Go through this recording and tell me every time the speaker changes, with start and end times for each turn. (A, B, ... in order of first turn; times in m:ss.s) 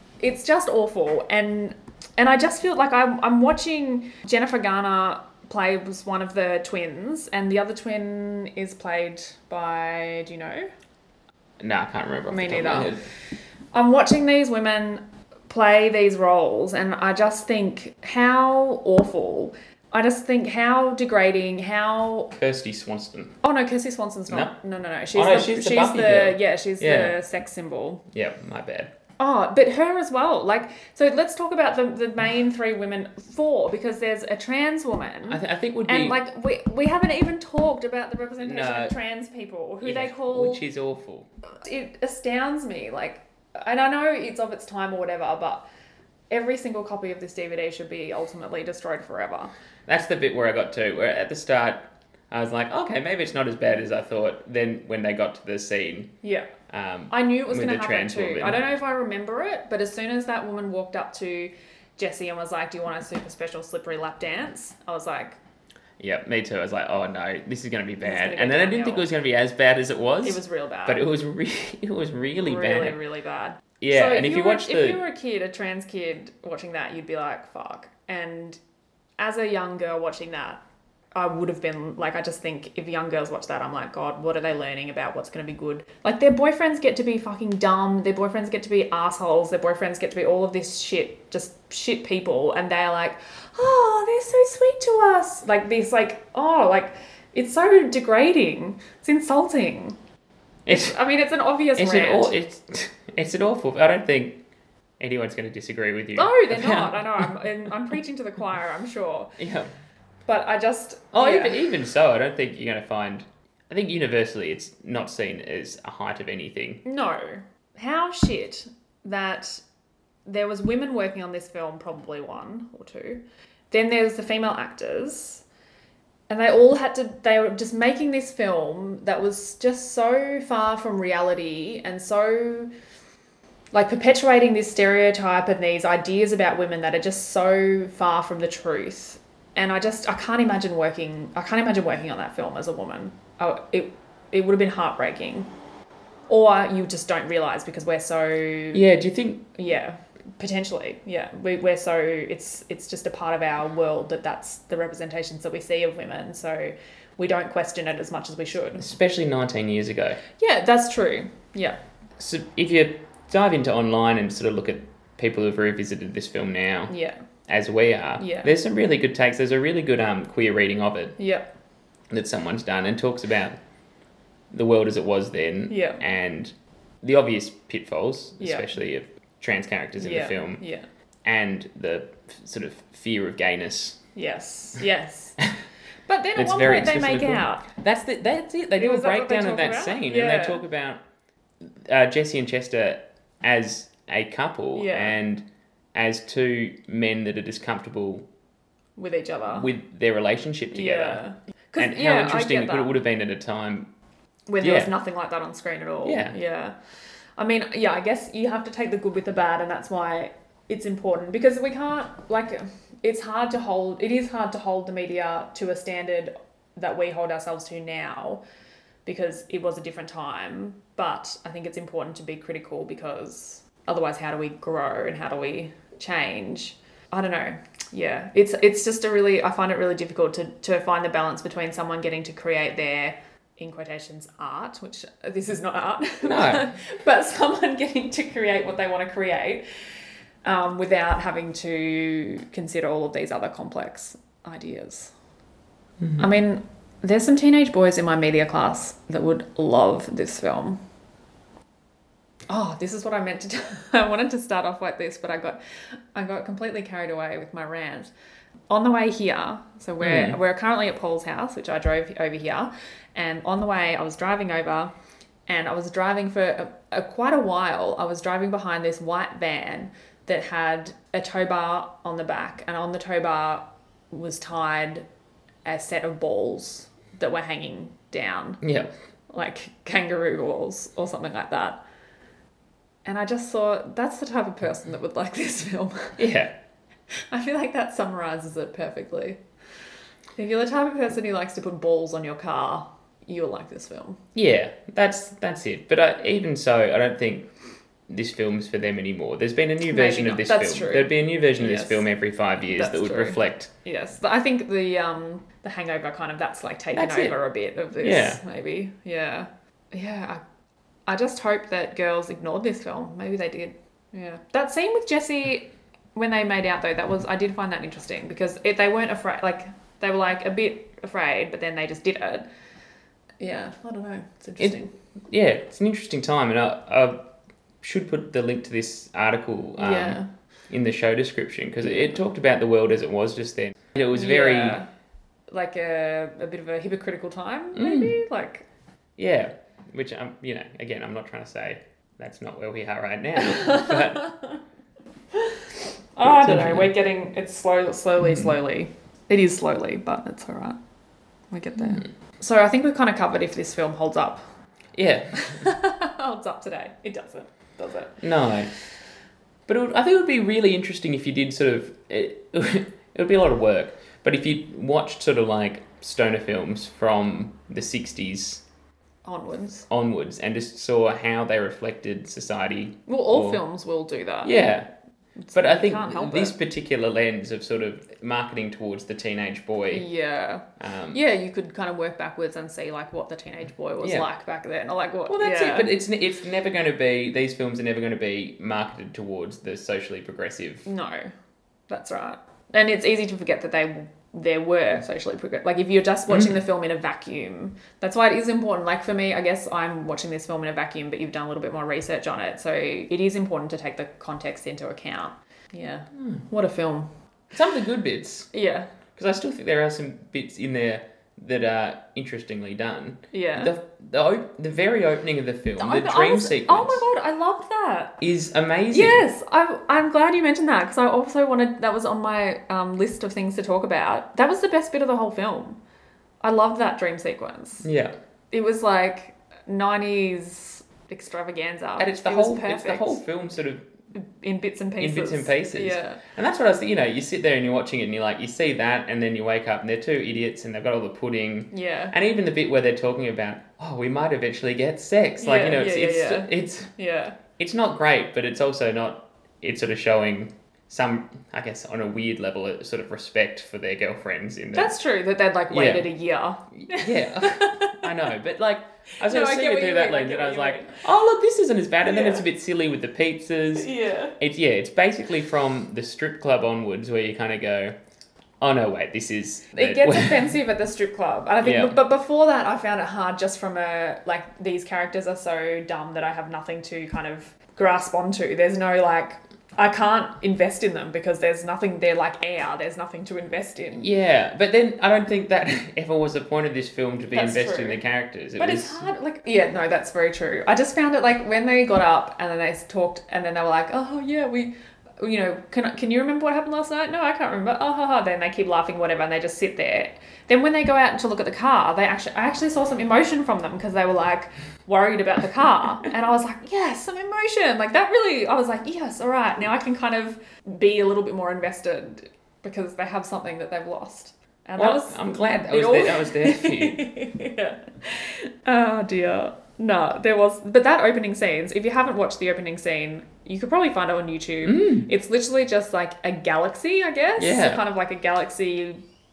0:00.2-0:10.7 A
0:11.6-0:13.1 B
0:12.3-0:13.0 A
0:13.7-0:22.3 A
0:22.4-0:23.4 B
0:23.4-0:28.0 A
0:24.3-0:24.5 B
0:25.1-0:27.2 B
0:28.1-0:28.9 B
0:29.2-0:40.6 A
0:35.3-0:36.2 B
0:38.4-0:38.9 B
0:39.8-0:41.3 B
0:41.6-0:45.6 A
0:46.3-0:49.5 A
0:49.9-0:56.2 B
0:56.2-0:56.5 A
0:56.7-0:58.6 B
0:57.1-1:05.4 A
1:06.0-1:13.0 B
1:08.0-1:09.1 A
1:10.2-1:11.0 A
1:12.4-1:18.6 A
1:13.8-1:15.0 B
1:19.2-1:20.6 A
1:21.1-1:40.0 A
1:40.6-1:41.0 B
1:40.7-1:42.3 A
1:41.7-1:44.4 B
1:45.0-1:47.3 B
1:46.2-1:49.4 A
1:49.4-1:49.7 B
1:50.2-1:51.6 A
1:51.1-1:56.8 B
1:56.8-1:59.6 A
2:00.2-2:05.4 A
2:06.3-2:12.7 A
2:13.7-2:25.5 A
2:26.3-2:28.8 A
2:28.7-2:29.4 B
2:29.5-2:38.9 A
2:38.8-2:40.2 B
2:40.4-2:41.8 A
2:42.2-2:46.9 B
2:46.9-2:47.2 A
2:47.5-2:51.2 B
2:48.2-2:48.5 A
2:51.2-2:51.5 A
2:52.1-2:53.6 B
2:54.5-3:00.6 B
2:55.7-2:56.0 A
2:58.4-2:58.7 A
3:00.0-3:00.9 A
3:01.2-3:04.0 B
3:04.1-3:05.4 A
3:06.1-3:07.6 A
3:06.4-3:11.0 B
3:08.8-3:10.6 A
3:11.6-3:18.2 B
3:14.7-3:15.2 A
3:19.0-3:19.7 A
3:19.5-3:21.2 B
3:20.7-3:22.9 A
3:21.8-3:23.9 B
3:24.5-3:26.8 A
3:24.6-3:24.9 B
3:26.0-3:26.4 B
3:27.4-3:38.4 A
3:39.0-3:59.6 A
3:56.2-3:56.7 B
4:00.4-4:05.1 A
4:06.2-4:10.8 A
4:12.5-4:15.6 A
4:16.1-4:18.1 A
4:18.7-4:24.9 A
4:20.0-4:20.4 B
4:25.5-4:35.0 A
4:35.6-4:38.6 A
4:38.6-4:38.9 B
4:39.3-4:41.8 A
4:43.0-4:46.2 A
4:46.2-4:46.5 B
4:47.1-4:49.4 A
4:50.4-4:54.2 A
4:54.3-4:57.5 B
4:58.1-5:03.7 B
4:59.9-5:02.0 A
5:02.7-5:10.4 A
5:06.9-5:07.4 B
5:08.0-5:08.4 B
5:11.0-5:22.5 A
5:23.4-5:24.9 A
5:25.3-5:27.3 B
5:27.8-5:34.8 B
5:29.8-5:30.3 A
5:34.1-5:34.9 A
5:35.5-5:38.6 A
5:37.7-5:38.1 B
5:39.2-5:44.3 B
5:43.4-5:44.4 A
5:45.3-5:45.6 A
5:46.2-5:50.8 A
5:46.2-5:46.9 B
5:51.5-5:54.4 A
5:54.9-5:55.7 B
5:55.4-5:58.2 A
5:58.2-5:58.7 B
5:59.7-6:08.6 B
6:09.2-6:09.9 A
6:09.9-6:13.6 B
6:13.1-6:14.6 A
6:14.4-6:14.9 B
6:15.4-6:16.6 A
6:15.5-6:20.0 B
6:19.9-6:25.9 A
6:20.8-6:21.2 B
6:24.0-6:24.2 B
6:25.3-6:30.9 B
6:30.8-6:31.3 A
6:31.9-6:47.1 A
6:46.2-6:46.4 B
6:47.5-6:48.5 B
6:48.5-6:48.9 A
6:49.1-6:57.0 B
6:53.3-6:53.7 A
6:55.8-6:58.2 A
6:58.2-6:59.2 B
6:58.9-7:05.8 A
7:06.4-7:07.8 A
7:07.8-7:08.1 B
7:08.5-7:13.2 A
7:12.0-7:13.9 B
7:14.1-7:16.2 A
7:15.0-7:26.9 B
7:21.7-7:22.1 A
7:25.4-7:27.4 A
7:27.5-7:35.0 B
7:34.7-7:38.1 A
7:35.7-7:36.1 B
7:36.7-7:47.9 B
7:39.2-7:41.0 A
7:42.0-7:42.4 A
7:43.7-7:44.4 A
7:48.6-7:50.5 B
7:49.7-8:04.1 A
7:51.6-7:52.0 B
8:04.0-8:09.1 B
8:07.3-8:08.0 A
8:08.6-8:49.0 A
8:34.8-8:37.0 B
8:44.6-8:45.1 B
8:47.4-8:47.8 B